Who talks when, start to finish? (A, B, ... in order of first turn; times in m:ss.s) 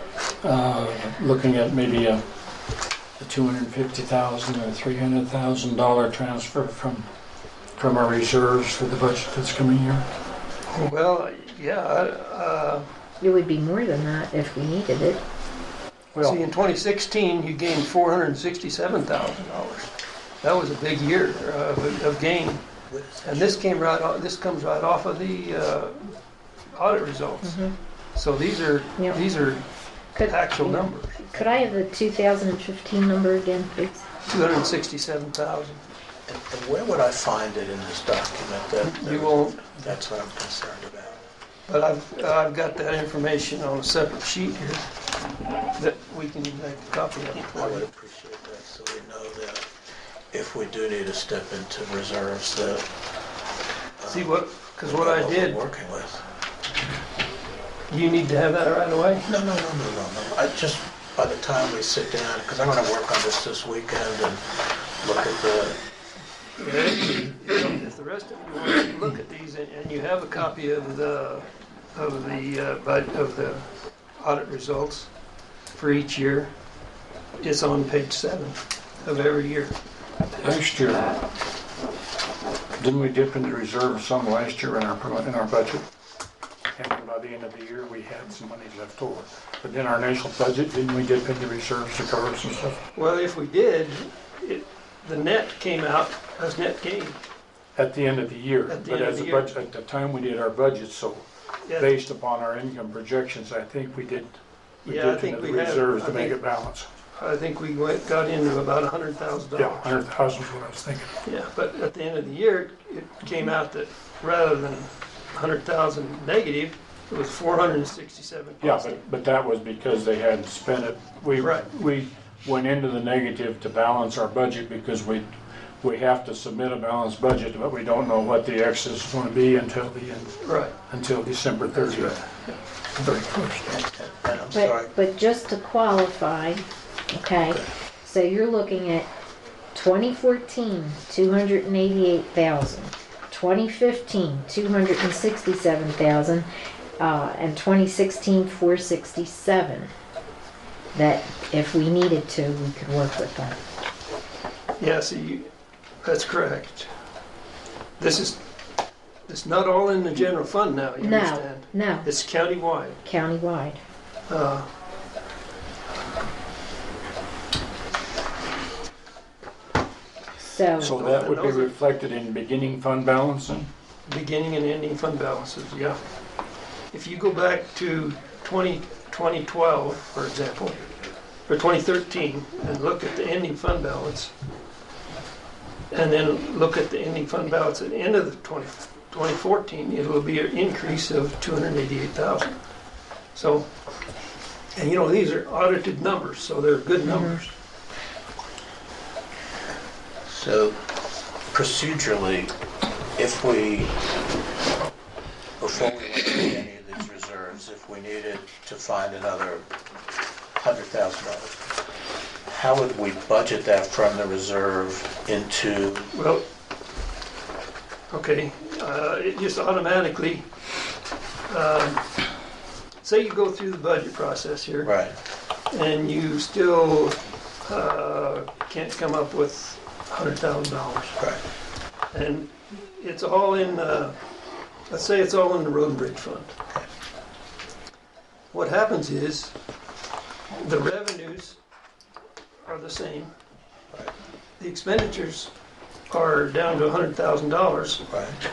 0:00.4-0:02.2 A
0:03.2-0:07.1 A
0:07.8-0:10.1 A
0:10.7-0:12.9 B
0:13.2-0:15.2 C
0:16.1-0:16.4 A
0:16.2-0:22.6 B
0:22.9-0:23.6 D
0:23.2-0:26.1 B
0:26.7-0:29.7 B
0:27.4-0:27.7 C
0:30.2-0:34.1 C
0:30.2-0:31.7 B
0:34.3-0:35.8 B
0:36.3-0:41.2 D
0:38.8-0:39.8 B
0:41.7-0:44.9 B
0:45.8-0:47.8 B
0:47.5-0:49.7 D
0:50.3-0:52.8 D
0:54.0-0:54.3 D
0:54.1-0:55.6 B
0:54.8-0:56.2 D
0:57.9-0:59.3 B
0:59.3-1:05.8 D
1:06.6-1:13.7 B
1:14.2-1:15.1 B
1:15.8-1:16.5 B
1:17.4-1:19.8 B
1:20.4-1:21.2 A
1:22.8-1:25.9 A
1:26.8-1:32.8 A
1:33.0-1:37.2 B
1:37.8-1:46.9 A
1:38.7-1:39.5 B
1:41.6-1:41.9 B
1:44.9-1:46.4 B
1:47.2-1:49.9 B
1:49.6-1:51.1 A
1:51.2-1:59.0 B
1:58.6-2:05.3 A
2:01.4-2:01.7 B
2:05.8-2:12.2 A
2:10.4-2:10.7 B
2:11.7-2:12.4 B
2:13.0-2:13.8 A
2:13.7-2:14.9 D
2:14.5-2:19.1 C
2:19.7-2:26.5 C
2:27.0-2:29.9 C
2:30.9-2:33.6 C
2:34.8-2:35.5 B
2:36.0-2:36.9 B
2:38.0-2:38.4 B
2:39.3-2:43.0 B
2:41.0-2:42.1 C
2:43.0-2:43.8 C
2:44.3-2:44.7 B
2:50.4-2:51.0 C
2:50.8-2:53.7 A
2:50.8-2:51.7 B
2:54.1-2:56.0 B
2:56.9-3:00.8 B
3:01.5-3:04.3 B
3:05.9-3:12.6 B
3:13.4-3:13.7 B
3:14.8-3:17.5 B
3:17.1-3:17.3 C
3:20.3-3:20.8 D
3:21.5-3:22.6 D
3:23.2-3:23.9 D
3:25.6-3:29.7 D
3:30.6-3:31.6 D
3:32.5-3:36.1 D
3:36.1-3:36.4 B
3:38.1-3:40.4 B
3:41.5-3:42.0 B
3:43.0-3:44.9 B
3:44.8-3:45.2 D
3:45.7-3:51.2 B
3:52.1-3:54.2 B
3:54.9-3:56.5 B
3:58.5-3:59.5 B
4:00.6-4:01.6 B
4:02.7-4:03.3 B
4:04.6-4:05.5 B
4:06.1-4:08.1 B
4:08.1-4:08.4 D